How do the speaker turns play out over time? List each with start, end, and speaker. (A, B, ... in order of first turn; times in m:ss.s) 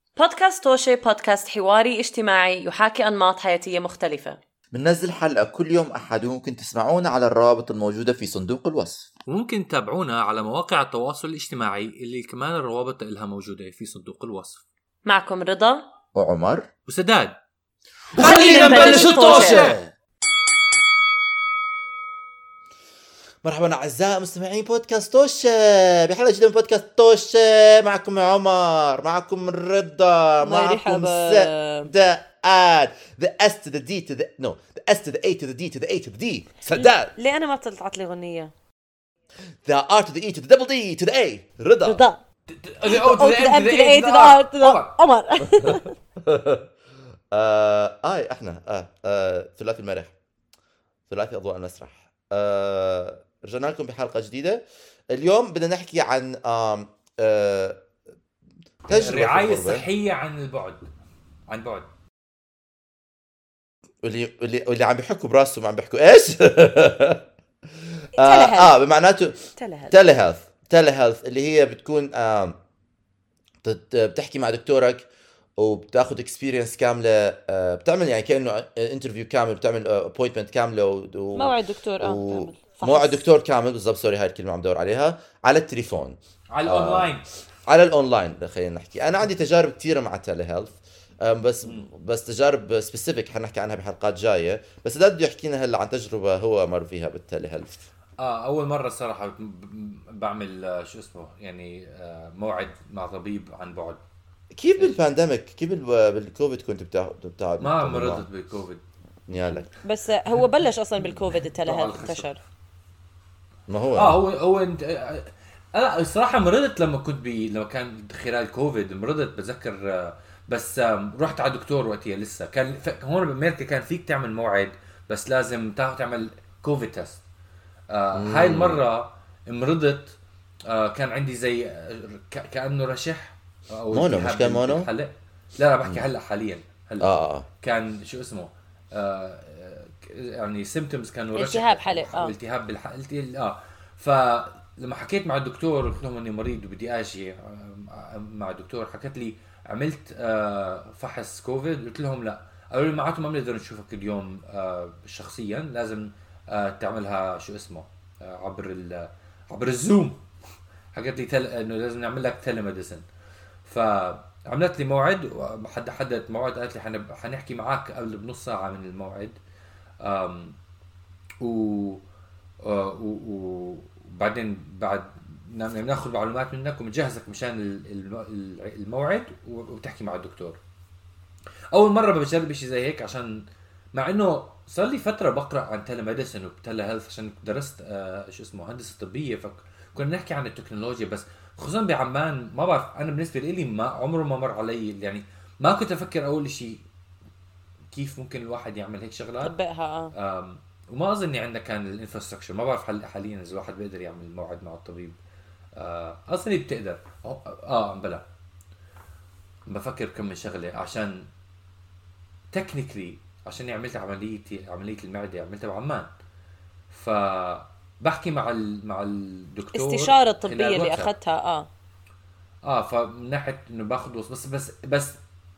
0:00.2-0:04.4 A
0:04.7-0:09.1 B
0:09.3-0:14.6 C
0:15.0-0:15.8 A
0:16.1-0:16.7 B
0:16.9-0:17.4 C
0:18.1-0:19.9 C
0:18.2-0:19.8 A
0:18.3-0:19.5 D
0:23.4-0:37.1 B
0:30.4-0:31.9 D
0:36.7-0:38.5 D
0:39.6-0:42.0 B
0:41.8-0:42.2 D
0:42.5-0:44.9 C
0:42.8-0:45.9 D
0:45.4-0:46.6 B
0:47.3-0:50.1 B
0:51.1-0:57.8 B
0:58.9-1:00.9 C
0:58.9-0:59.9 B
1:01.5-1:01.9 C
1:04.0-1:07.2 B
1:08.1-1:12.6 B
1:08.1-1:08.8 D
1:09.5-1:09.9 D
1:13.6-1:37.8 B
1:21.3-1:23.2 D
1:26.5-1:27.2 C
1:38.2-1:44.0 C
1:44.5-1:48.2 B
1:47.6-1:48.8 C
1:49.3-1:49.7 B
1:49.7-1:52.4 D
1:51.2-1:52.4 C
1:53.7-1:54.2 B
1:54.0-2:07.2 C
2:07.9-2:10.2 C
2:08.1-2:08.8 B
2:10.7-2:17.1 C
2:13.9-2:14.9 B
2:17.0-2:17.5 B
2:17.6-2:40.2 C
2:21.3-2:22.3 D
2:40.9-2:43.0 C
2:43.6-2:49.4 C
2:50.0-2:50.6 C
2:51.4-2:52.0 C
2:52.6-3:00.6 C
3:01.7-3:16.8 C
3:17.9-3:19.5 C
3:19.4-3:20.1 D
3:20.1-3:25.2 C
3:25.8-3:28.2 C
3:29.7-3:31.3 C
3:32.5-3:36.1 C
3:36.9-3:41.1 C
3:39.7-3:41.7 D
3:42.6-3:45.2 C